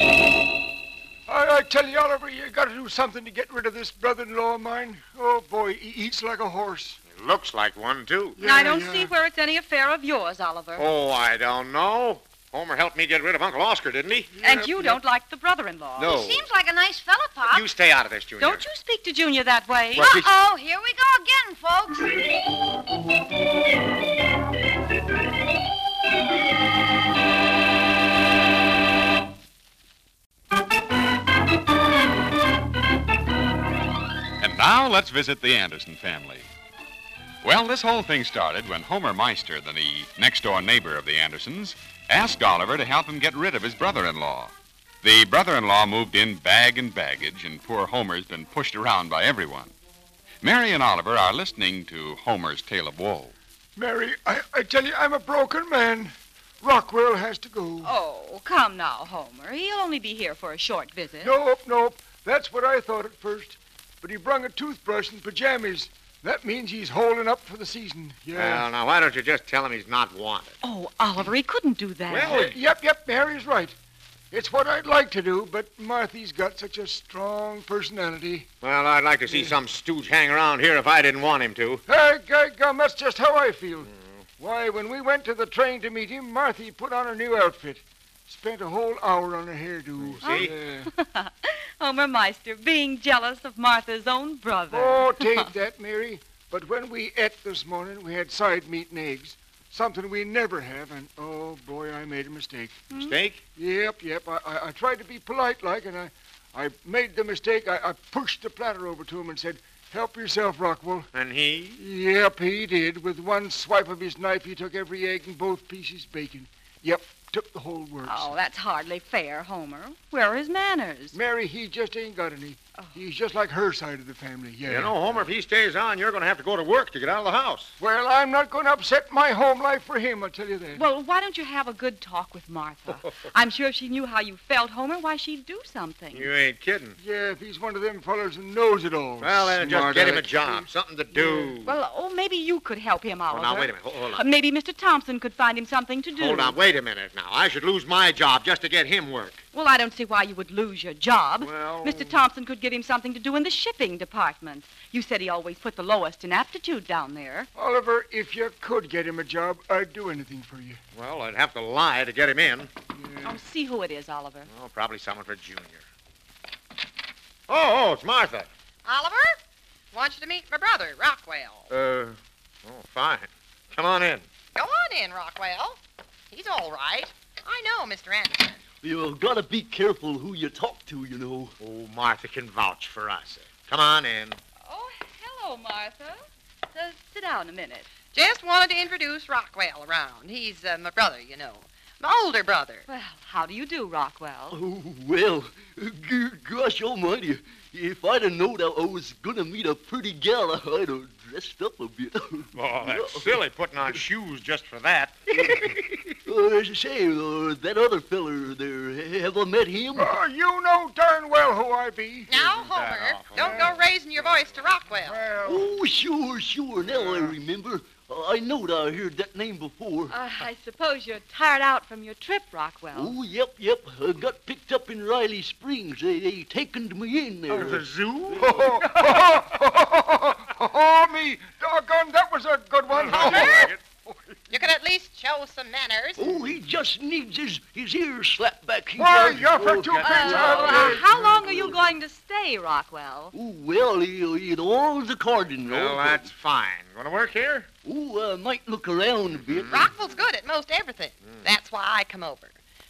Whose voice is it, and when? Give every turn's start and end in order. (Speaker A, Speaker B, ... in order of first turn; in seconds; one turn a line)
Speaker A: 1.3-7.0
Speaker B: 7.1-8.4
Speaker A: 8.4-9.1
Speaker C: 8.4-10.9
Speaker B: 10.8-14.3
Speaker A: 14.3-15.0
Speaker C: 14.4-16.1
Speaker B: 16.0-16.4
Speaker D: 16.0-17.7
Speaker B: 17.4-18.6
Speaker C: 18.4-20.2
Speaker B: 19.9-20.3
Speaker D: 20.0-22.3
Speaker E: 34.4-36.5
Speaker E: 37.4-49.7
Speaker E: 50.4-53.4
Speaker A: 53.8-57.9
Speaker C: 57.8-61.3
Speaker A: 61.2-68.7
Speaker B: 68.3-70.6
Speaker C: 70.6-72.4
Speaker B: 72.1-72.6
Speaker A: 72.2-73.8
Speaker A: 74.3-78.5
Speaker B: 78.6-81.8
Speaker A: 81.9-90.9
Speaker B: 90.0-90.6
Speaker C: 90.2-95.5
Speaker A: 94.7-102.9
Speaker C: 102.9-103.2
Speaker B: 102.9-103.4
Speaker A: 103.6-111.1
Speaker B: 111.1-111.8
Speaker A: 111.8-118.3
Speaker C: 118.0-121.2
Speaker A: 121.1-125.3
Speaker B: 124.7-127.8
Speaker A: 127.8-130.8
Speaker C: 130.8-136.3
Speaker B: 136.1-137.0
Speaker A: 137.0-141.5
Speaker B: 139.2-141.7
Speaker C: 141.6-146.6
Speaker B: 143.3-144.2
Speaker B: 146.2-149.4
Speaker C: 149.5-157.5
Speaker B: 151.4-152.1
Speaker A: 157.6-160.8
Speaker B: 160.9-162.7
Speaker A: 163.0-163.4
Speaker C: 163.2-164.5
Speaker B: 164.5-165.8
Speaker B: 167.5-168.5
Speaker F: 168.8-169.4
Speaker F: 169.9-171.7
Speaker B: 171.7-174.3
Speaker F: 174.6-175.8
Speaker F: 176.3-178.6
Speaker G: 178.8-181.6
Speaker B: 181.6-184.4
Speaker C: 184.7-187.9
Speaker F: 188.1-192.8
Speaker C: 192.9-194.6
Speaker G: 194.5-203.4
Speaker B: 202.6-206.0
Speaker G: 206.2-210.1
Speaker A: 210.0-212.3
Speaker F: 212.3-215.3
Speaker B: 212.3-214.6
Speaker A: 213.4-213.7
Speaker A: 214.9-215.7
Speaker G: 215.4-220.1
Speaker A: 217.0-217.3
Speaker C: 220.1-223.2
Speaker G: 222.9-227.9
Speaker B: 227.5-229.1
Speaker A: 227.5-234.3
Speaker B: 232.9-233.8
Speaker F: 233.2-233.7
Speaker F: 234.5-236.3
Speaker G: 236.2-241.8
Speaker A: 239.0-241.7
Speaker B: 239.8-241.0
Speaker C: 240.0-243.3
Speaker G: 243.3-246.3
Speaker B: 245.7-247.7
Speaker G: 247.8-249.9
Speaker B: 249.3-249.9
Speaker F: 249.7-252.6